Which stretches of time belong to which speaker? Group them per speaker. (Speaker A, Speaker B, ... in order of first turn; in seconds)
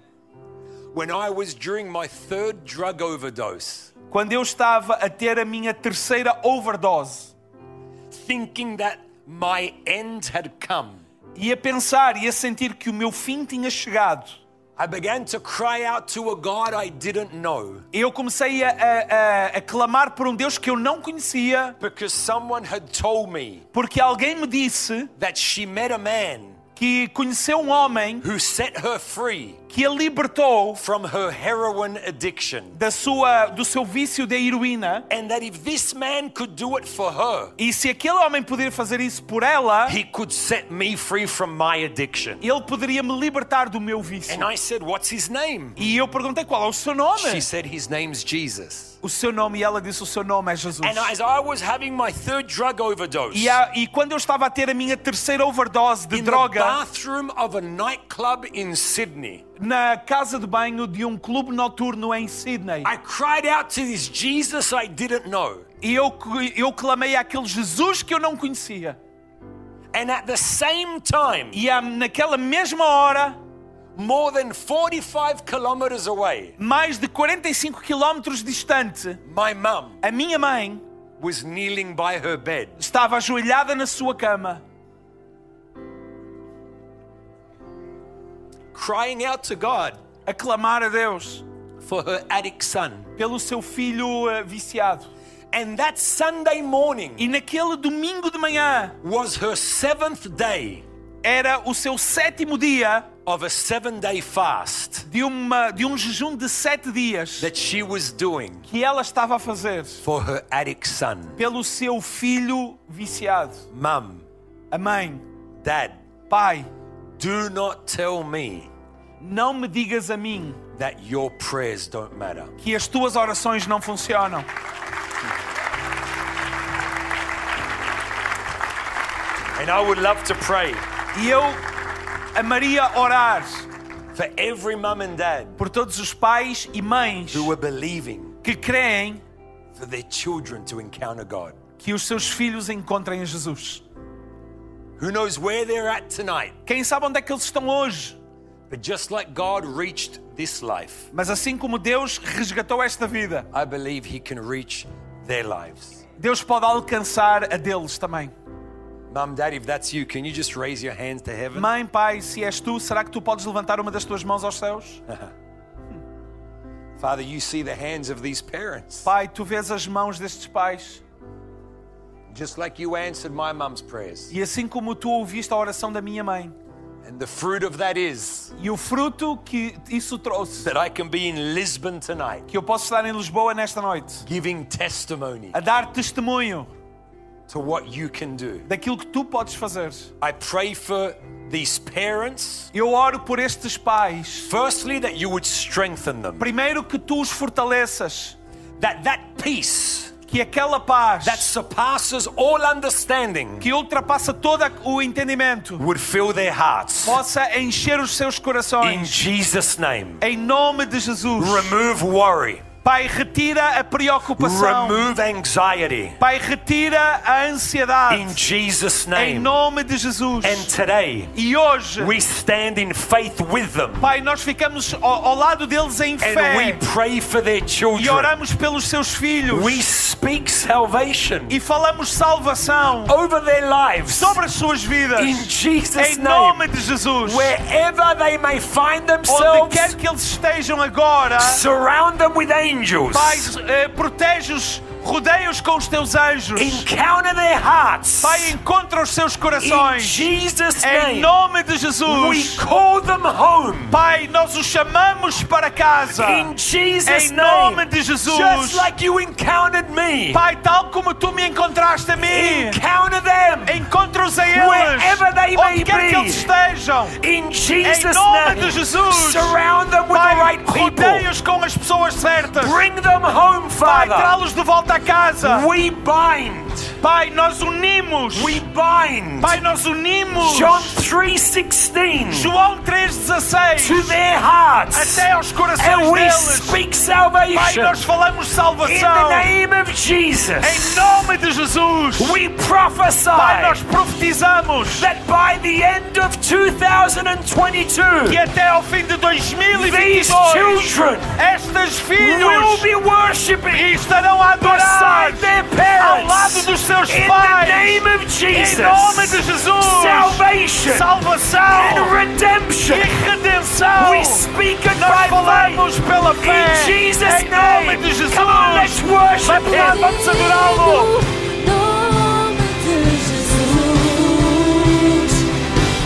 Speaker A: 0.9-3.9, 8.1-11.0, 14.8-17.9, 21.8-23.6, 25.2-26.6, 28.2-29.6, 30.8-32.8, 35.1-37.5, 39.9-42.4, 44.3-45.8, 47.1-49.0, 50.8-53.6, 56.1-59.4, 62.8-65.7, 69.9-71.6, 74.0-76.6, 79.2-80.0, 81.2-82.8, 88.7-90.0, 91.8-93.1, 95.5-97.3, 99.0-100.9, 103.2-105.1, 107.4-108.7, 110.0-111.4, 113.7-114.3, 115.6-116.0, 117.2-118.7, 120.7-122.5, 129.6-130.8, 134.1-135.6, 137.3-138.4, 139.7-141.6, 145.0-146.6, 148.7-151.1, 153.5-156.0, 159.1-161.7, 165.1-165.3, 167.0-169.1, 172.3-174.3, 177.0-178.5, 180.6-182.5, 184.2-185.6, 187.5-188.7, 190.2-192.7, 194.5-196.5, 198.8-200.1, 201.2-203.7, 205.8-207.2, 208.8-210.2, 211.4-212.7, 214.4-216.2, 218.1-219.5, 220.4-221.3, 222.0-224.1, 226.2-228.3, 229.5-231.6, 233.1-234.4, 235.2-236.7, 237.2-240.0, 241.4-243.5, 246.6-248.6, 249.6-251.3, 252.1-254.0, 256.1-260.4, 262.2-263.9, 264.5-266.5, 267.2-271.3, 272.6-274.4, 275.4-277.0, 278.3-279.6, 280.4-282.5, 283.8-288.0, 288.8-291.3, 292.2-293.8, 294.9-298.4, 299.7-301.4, 302.2-304.1, 304.6-311.1, 311.7-313.1, 314.0-315.9, 316.4-320.1
Speaker B: 4.1-7.3, 11.3-14.4, 17.9-21.8, 23.7-25.1, 26.8-28.3, 29.7-30.8, 32.8-35.1, 37.6-40.0, 42.4-44.5, 45.8-47.5, 49.0-51.1, 53.3-56.8, 59.6-62.9, 65.8-69.0, 71.5-73.4, 76.6-79.2, 80.0-80.8, 82.8-84.6, 90.3-91.5, 93.2-95.1, 97.2-99.0, 101.2-103.1, 105.1-107.5, 108.7-110.0, 111.4-113.7, 114.7-115.2, 116.3-116.7, 119.2-120.6, 122.6-124.5, 131.1-131.6, 132.3-133.7, 135.6-137.5, 138.4-139.2, 141.8-143.8, 146.7-148.2, 151.1-153.5, 156.2-158.3, 161.5-165.0, 169.1-171.0, 174.3-176.6, 178.6-180.7, 182.5-184.3, 185.5-186.7, 188.7-190.1, 192.7-194.5, 196.4-198.4, 200.3-201.5, 203.6-205.8, 207.0-209.2, 210.2-211.8, 212.8-215.1, 216.2-218.4, 219.1-220.7, 221.3-222.2, 224.0-226.8, 227.9-229.8, 231.5-233.2, 234.1-237.6, 239.3-241.6, 243.1-246.9, 248.2-250.3, 250.8-252.6, 253.9-256.5, 257.1-258.9, 260.3-262.8, 263.7-267.2, 267.8-269.6, 270.1-272.8, 273.8-275.7, 277.0-278.6, 279.4-281.0, 282.3-284.2, 284.9-286.8, 287.5-289.5, 290.6-292.4, 293.3-295.1, 298.2-302.9, 303.7-312.1, 312.9-321.1
Speaker C: 319.6-325.5